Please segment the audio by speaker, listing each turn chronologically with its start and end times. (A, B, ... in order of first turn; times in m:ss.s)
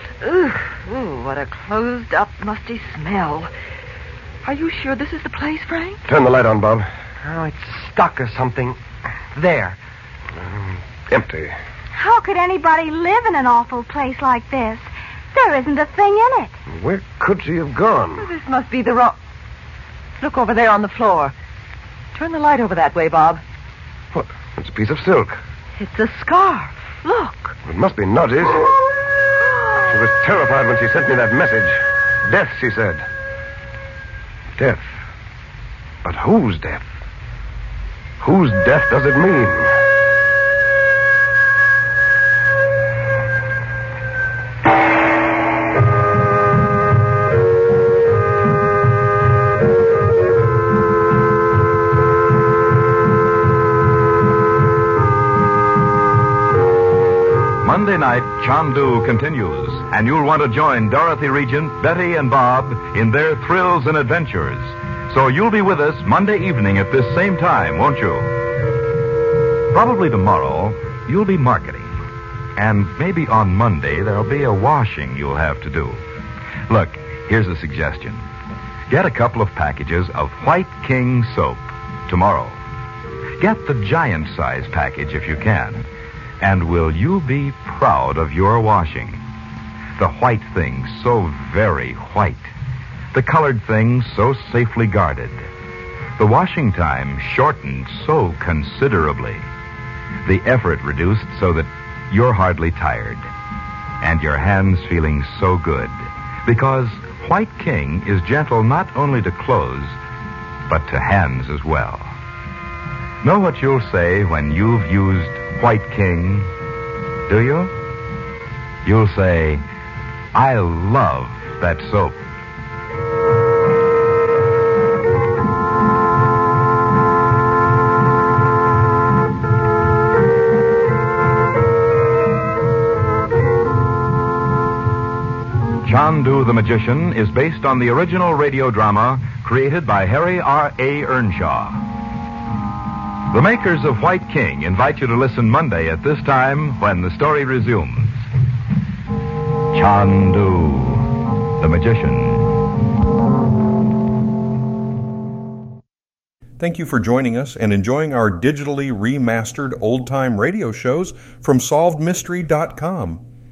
0:00.2-0:03.5 A
0:04.4-0:06.0 A
0:06.1-0:06.9 B
0:07.2-0:08.8 C
0:09.3-0:09.8 C
0:10.4-0:11.5 B
0:11.9-0:16.5 D
0:16.7-0:18.2 B
0:18.2-0:19.2 A
0:20.2-0:21.3 A
0:22.1-0:23.4 A
0:24.1-0:25.4 B
0:25.8-0:27.5 A
0:27.6-0:28.7 B
0:29.9-0:33.0 B
0:34.6-0:35.0 B
0:36.0-0:36.8 B
0:38.2-0:39.7 B
0:57.6-1:08.4 E
1:09.7-1:12.0 E
1:12.6-1:16.0 E
1:16.7-1:18.2 E
1:18.9-1:22.6 E
1:23.4-1:25.8 E
1:26.4-1:29.2 E
1:30.0-1:32.5 E
1:33.1-1:35.4 E
1:36.2-1:39.5 E
1:40.2-1:43.3 E
1:44.0-1:45.9 E
1:46.4-1:50.0 E
1:50.7-1:52.1 E
1:53.2-1:56.5 E
1:57.3-1:57.7 E
1:58.8-1:59.6 E
2:00.3-2:02.2 E
2:15.8-2:21.8 E
2:23.3-2:28.3 E
2:29.7-2:32.6 E
2:36.6-2:43.2 F